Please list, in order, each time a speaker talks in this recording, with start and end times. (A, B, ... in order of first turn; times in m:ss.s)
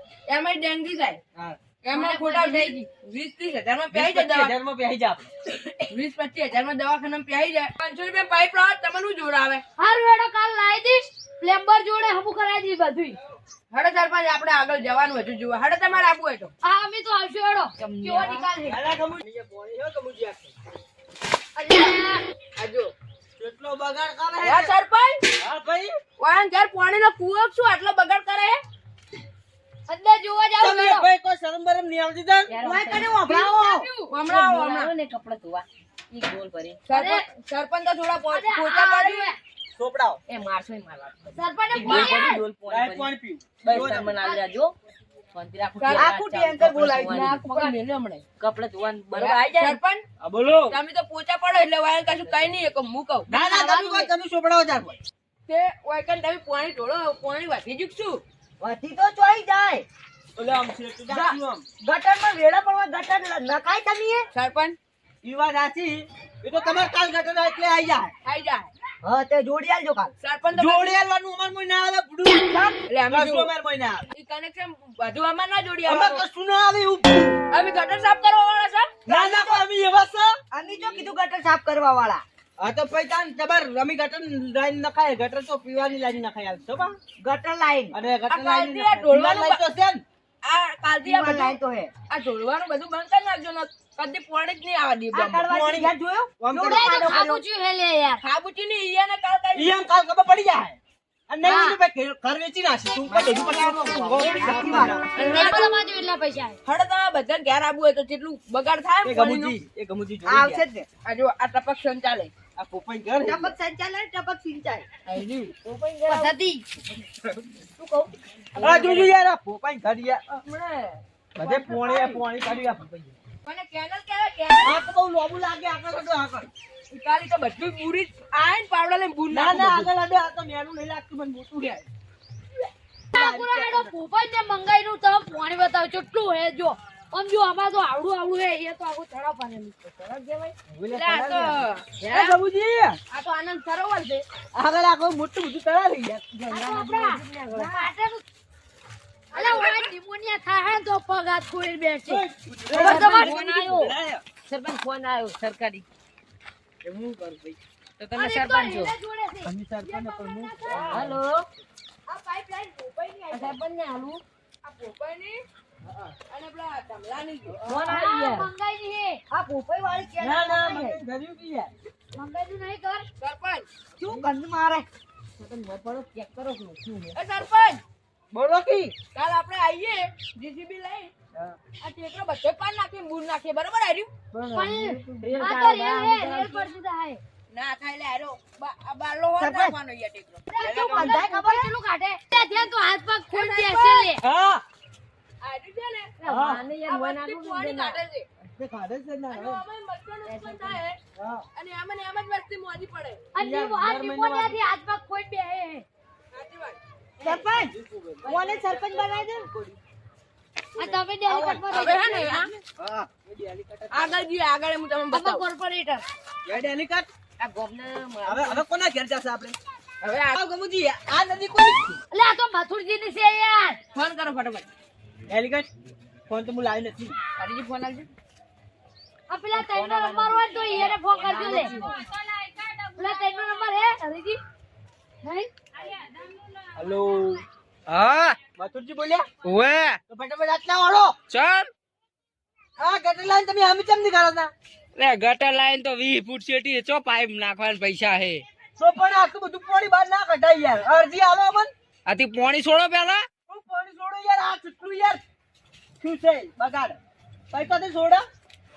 0:00.3-0:01.2 A
0:01.8-0:04.5 A
0:01.9-0:02.8 B
0:03.9-0:05.3 C
0:05.9-0:09.6 A
0:09.8-0:13.2 B
0:13.7-0:16.5 A
0:16.6-0:18.8 B
0:17.8-0:18.5 D
0:18.6-0:20.5 C
0:21.6-0:22.2 B
0:22.6-0:22.9 A
0:23.4-0:24.7 C
0:24.4-0:25.2 A
0:25.4-0:26.0 C
0:26.2-0:28.6 A
0:29.9-0:31.1 B
0:30.6-0:32.5 C
0:32.5-0:33.2 D
0:32.6-0:33.9 E
0:33.2-0:34.1 B
0:34.1-0:34.9 A
0:34.2-0:36.9 D
0:36.9-0:39.3 A
0:36.9-0:37.2 B
0:38.3-0:39.4 B
0:39.8-0:40.2 C
0:40.3-0:44.7 D
0:41.3-0:42.4 B
0:41.8-0:42.2 C
0:42.7-0:44.2 C
0:44.2-0:44.4 B
0:45.3-0:47.7 D
0:45.8-0:46.1 A
0:45.9-0:47.2 E
0:47.0-0:48.2 A
0:48.4-0:49.8 D
0:49.1-0:50.0 A
0:50.2-0:50.7 C
0:50.7-0:53.3 A
0:52.2-0:52.5 D
0:53.3-0:55.0 C
0:53.5-0:54.1 B
0:55.5-0:58.2 A
0:58.6-0:59.8 E
1:00.4-1:01.6 C
1:01.1-1:04.3 E
1:04.3-1:04.8 A
1:05.2-1:08.1 C
1:08.2-1:08.7 A
1:09.0-1:10.1 E
1:10.2-1:11.0 A
1:10.5-1:14.1 C
1:12.9-1:13.5 A
1:14.1-1:16.2 A
1:15.8-1:17.4 C
1:17.5-1:18.9 A
1:19.1-1:19.6 E
1:19.1-1:20.4 C
1:20.5-1:22.2 E
1:20.7-1:21.2 D
1:22.6-1:27.0 C
1:27.2-1:28.0 E
1:27.9-1:30.0 C
1:28.3-1:29.6 A
1:30.4-1:31.6 A
1:31.0-1:31.9 E
1:32.1-1:35.5 A
1:35.1-1:37.4 E
1:35.4-1:37.3 C
1:36.6-1:38.2 B
1:38.2-1:39.7 A
1:39.5-1:40.8 C
1:41.3-1:45.4 C
1:41.4-1:41.8 E
1:43.1-1:45.0 E
1:45.2-1:45.7 A
1:45.2-1:46.6 B
1:46.6-1:49.6 A
1:49.0-1:50.6 C
1:50.2-1:50.9 E
1:51.0-1:52.3 A
1:52.6-1:53.5 C
1:53.2-1:54.8 E
1:55.1-1:55.5 A
1:55.7-1:56.4 E
1:56.0-1:56.6 B
1:58.6-1:59.1 A
1:58.6-2:00.2 C
2:00.3-2:02.3 A
2:01.4-2:03.1 C
2:03.4-2:04.8 A
2:04.6-2:06.5 C
2:06.9-2:09.9 A
2:09.3-2:11.9 C
2:13.1-2:13.9 C
2:13.1-2:19.7 B
2:19.8-2:20.5 D
2:20.7-2:23.0 C
2:20.9-2:22.4 A
2:23.1-2:24.2 A
2:24.5-2:26.4 C
2:26.5-2:28.2 B
2:26.5-2:27.8 D
2:29.3-2:32.2 B
2:29.3-2:29.9 A
2:32.0-2:34.2 C
2:32.7-2:35.8 D
2:32.8-2:33.3 B
2:33.1-2:33.7 A
2:36.9-2:37.5 C
2:38.0-2:39.0 D
2:38.1-2:40.8 B
2:39.4-2:41.1 C
2:40.7-2:41.4 D
2:42.1-2:43.6 A
2:43.3-2:44.2 D
2:44.6-2:45.4 A
2:45.8-2:46.1 C
2:46.3-2:47.6 A
2:47.6-2:48.5 D
2:47.6-2:48.4 E
2:47.8-2:49.2 B
2:49.3-2:51.0 E
2:50.2-2:51.7 C
2:52.1-2:53.1 B
2:53.2-2:53.7 A
2:54.0-2:54.9 E
2:55.4-2:57.1 D
2:57.1-2:57.8 A
2:58.3-2:58.9 E
2:59.1-3:01.1 A
3:01.8-3:04.1 A
3:04.3-3:06.7 D
3:04.5-3:07.2 B
3:05.2-3:05.6 E
3:07.5-3:10.5 A
3:09.4-3:09.7 E
3:10.5-3:14.2 B
3:10.6-3:11.7 E
3:10.6-3:11.2 C
3:12.3-3:12.7 A
3:13.3-3:14.1 A
3:14.2-3:14.6 C
3:15.4-3:16.2 A
3:16.2-3:16.6 C
3:16.3-3:18.0 D
3:16.8-3:18.3 A
3:18.6-3:19.6 C
3:19.3-3:21.0 A
3:20.2-3:20.8 B
3:21.2-3:21.4 C
3:21.6-3:23.3 A
3:23.3-3:25.8 B
3:23.4-3:24.6 C
3:26.3-3:26.8 A
3:27.2-3:29.5 E
3:27.2-3:29.8 C
3:30.8-3:32.5 B
3:30.8-3:32.5 C
3:31.6-3:32.5 A
3:32.8-3:33.1 E
3:33.2-3:34.2 C
3:33.9-3:35.4 A
3:35.1-3:36.0 B
3:36.4-3:37.1 C
3:37.4-3:38.6 D
3:38.2-3:39.6 C
3:40.0-3:40.4 A
3:40.3-3:42.0 C
3:42.1-3:43.8 B
3:43.9-3:44.7 A
3:45.3-3:45.7 C
3:46.3-3:47.2 C
3:47.4-3:48.1 A
3:49.3-3:54.4 B
3:49.5-3:52.0 D
3:51.4-3:51.7 E
3:51.5-3:51.8 A
3:55.2-3:55.5 B
3:56.8-3:57.4 C
3:57.9-3:58.4 F
3:58.6-3:59.2 C
3:59.4-4:00.0 F
4:00.1-4:01.1 C
4:01.3-4:01.7 F
4:02.8-4:04.5 C
4:05.0-4:08.4 F
4:08.8-4:11.7 C
4:12.1-4:13.3 F
4:13.4-4:15.2 C
4:16.0-4:17.0 C
4:17.5-4:18.2 C